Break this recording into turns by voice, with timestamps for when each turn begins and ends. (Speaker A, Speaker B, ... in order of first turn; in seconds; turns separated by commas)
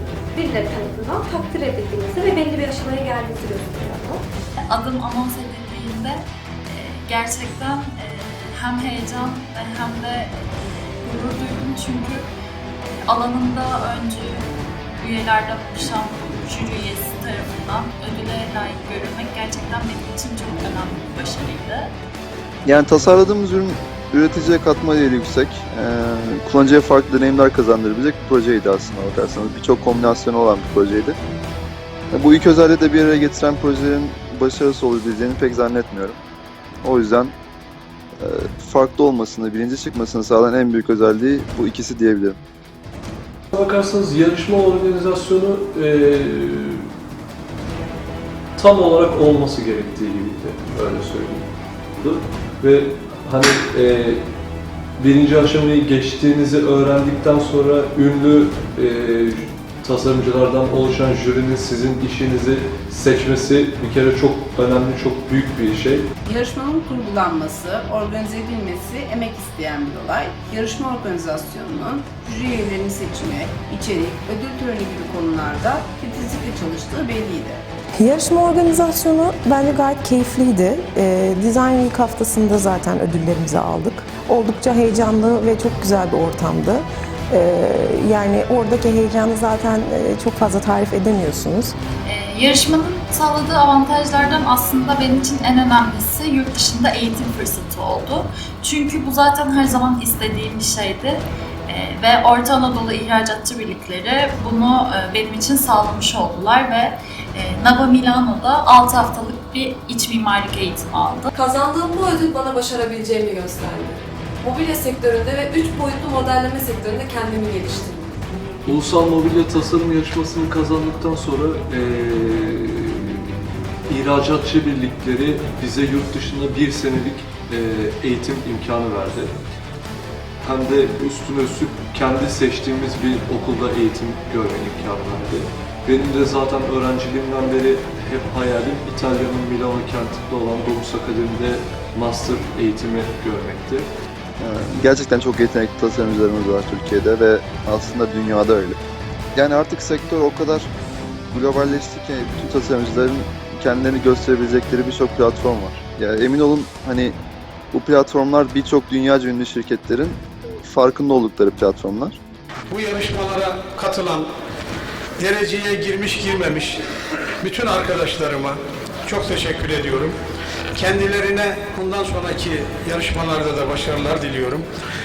Speaker A: 0.3-4.2, Speaker B: 4.7-10.4, Speaker B: 11.0-12.3, Speaker B: 13.1-21.9, Speaker C: 22.6-31.2, Speaker C: 32.1-36.2, Speaker C: 36.8-37.3, Speaker C: 38.2-42.4, Speaker D: 43.5-46.9, Speaker D: 48.6-54.2, Speaker D: 55.0-66.1, Speaker E: 66.2-77.6, Speaker F: 78.0-91.8, Speaker B: 92.0-111.3, Speaker G: 111.3-118.1, Speaker D: 118.7-129.4, Speaker D: 130.4-143.9, Speaker C: 144.4-148.8, Speaker C: 149.3-150.7, Speaker C: 151.3-157.2, Speaker C: 157.7-162.2, Speaker E: 162.7-164.3, Speaker E: 165.2-166.8, Speaker E: 167.4-170.1, Speaker E: 170.8-174.7